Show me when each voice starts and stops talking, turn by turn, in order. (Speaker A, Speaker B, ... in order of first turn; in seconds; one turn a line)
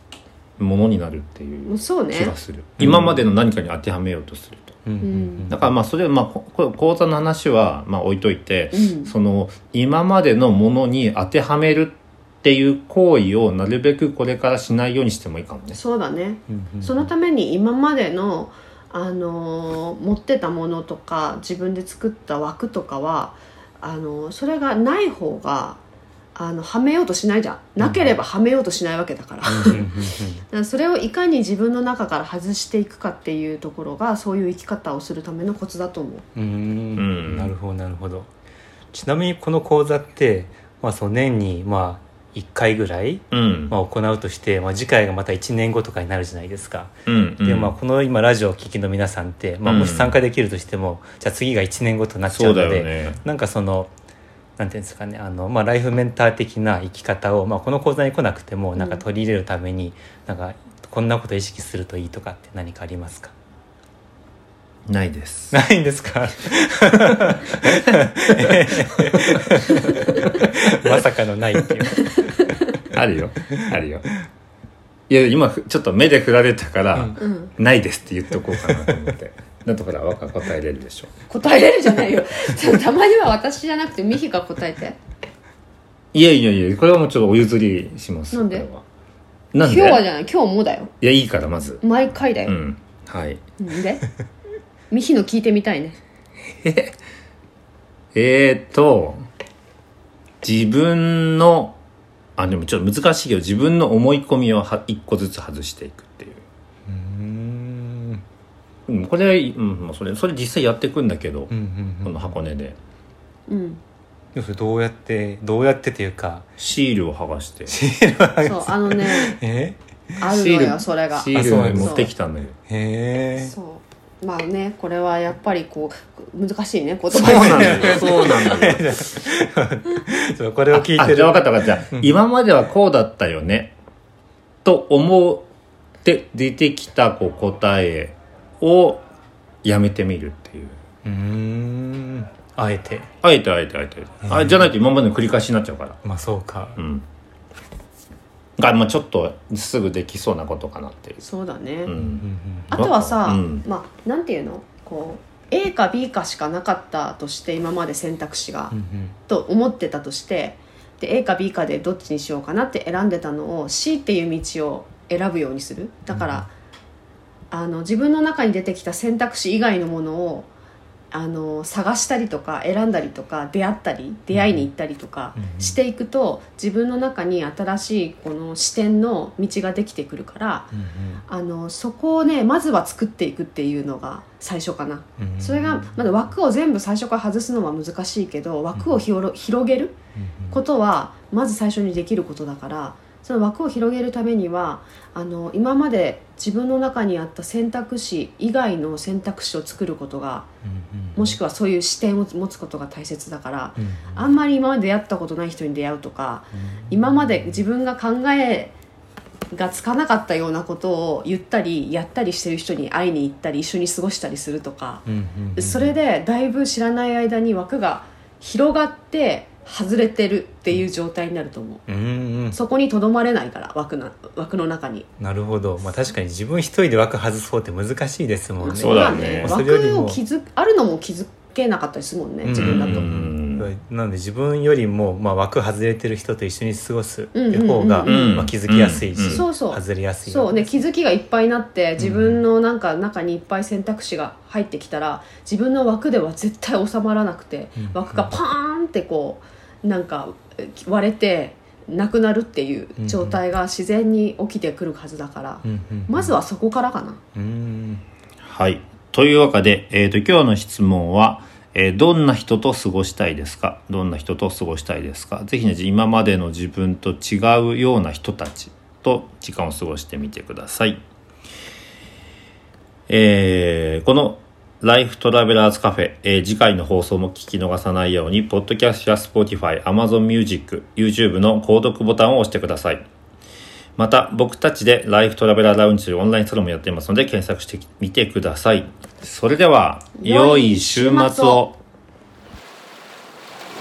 Speaker A: 0.6-4.8
Speaker B: 1.7-2.4
Speaker C: 2.8-3.2
Speaker C: 4.9-5.6
Speaker B: 5.0-5.5
Speaker A: 5.5-15.8
Speaker B: 8.7-9.1
Speaker B: 15.7-25.8
Speaker C: 16.5-17.1
Speaker B: 26.4-30.0
Speaker C: 27.8-28.1
Speaker C: 29.5-30.4
Speaker B: 30.5-36.2
Speaker C: 36.4-38.3
Speaker A: 37.0-37.5
Speaker C: 38.9-53.9
Speaker A: 43.3-43.8
Speaker A: 47.1-47.7
Speaker A: 49.6-50.2
Speaker A: 52.3-53.2
Speaker C: 54.6-63.3
Speaker B: 58.8-59.0
Speaker A: 64.9-65.6
Speaker C: 65.5-72.5
Speaker B: 69.8-70.2
Speaker A: 72.9-74.0
Speaker A: 75.1-81.1
Speaker B: 77.2-77.5
Speaker C: 78.5-79.0
Speaker B: 81.3-85.0
Speaker A: 86.1-88.8
Speaker B: 88.3-88.7
Speaker A: 89.5-90.0
Speaker B: 89.6-90.9
Speaker A: 91.0-91.8
Speaker B: 91.8-92.6
Speaker A: 92.5-93.4
Speaker B: 93.6-94.0
Speaker B: 94.9-96.0
Speaker A: 96.6-96.9
Speaker A: 98.1-99.2
Speaker A: 100.4-101.8
Speaker A: 102.4-106.4
Speaker C: 106.9-108.2
Speaker A: 108.9-111.5
Speaker C: 111.5-112.3
Speaker A: 112.0-112.8
Speaker B: 113.5-113.8
Speaker C: 114.3-116.5
Speaker A: 116.6-117.7
Speaker C: 117.7-120.2
Speaker B: 118.4-119.4
Speaker B: 120.2-122.1
Speaker A: 120.3-122.6
Speaker C: 121.3-122.1
Speaker C: 122.7-123.5
Speaker B: 123.3-128.7
Speaker A: 127.1-128.8
Speaker C: 127.2-132.2
Speaker A: 130.7-133.7
Speaker A: 134.7-135.5
Speaker A: 136.0-139.0
Speaker A: 139.6-140.8
Speaker C: 141.1-143.1
Speaker A: 143.2-146.0
Speaker C: 144.2-144.7
Speaker C: 146.0-146.8
Speaker A: 146.8-147.1
Speaker A: 148.6-151.2
Speaker B: 151.2-151.9
Speaker A: 151.9-153.7
Speaker C: 151.9-152.8
Speaker B: 152.7-158.7
Speaker C: 158.7-159.2
Speaker B: 159.3-166.5
Speaker C: 166.1-166.5
Speaker B: 167.5-170.5
Speaker B: 171.1-180.7
Speaker C: 174.3-174.7
Speaker C: 175.3-175.8
Speaker C: 180.7-181.2
Speaker B: 181.3-190.0
Speaker C: 185.2-185.9
Speaker C: 188.8-189.0
Speaker C: 190.2-190.6
Speaker B: 190.5-200.5
Speaker C: 200.6-201.4
Speaker B: 201.2-208.8
Speaker C: 203.8-204.2
Speaker C: 206.6-207.5
Speaker B: 209.5-221.8
Speaker C: 215.1-216.0
Speaker C: 221.9-222.6
Speaker B: 222.5-225.1
Speaker C: 225.2-230.2
Speaker B: 228.6-233.1
Speaker A: 228.7-229.6
Speaker C: 232.4-240.9
Speaker A: 232.5-233.7
Speaker B: 237.3-238.5
Speaker A: 238.1-239.5
Speaker B: 239.3-257.2
Speaker C: 242.0-242.4
Speaker C: 247.8-248.4
Speaker C: 253.0-253.4
Speaker C: 255.6-256.4
Speaker C: 257.4-258.0
Speaker A: 258.4-271.0
Speaker A: 273.1-283.1
Speaker A: 284.0-291.8
Speaker B: 290.2-291.7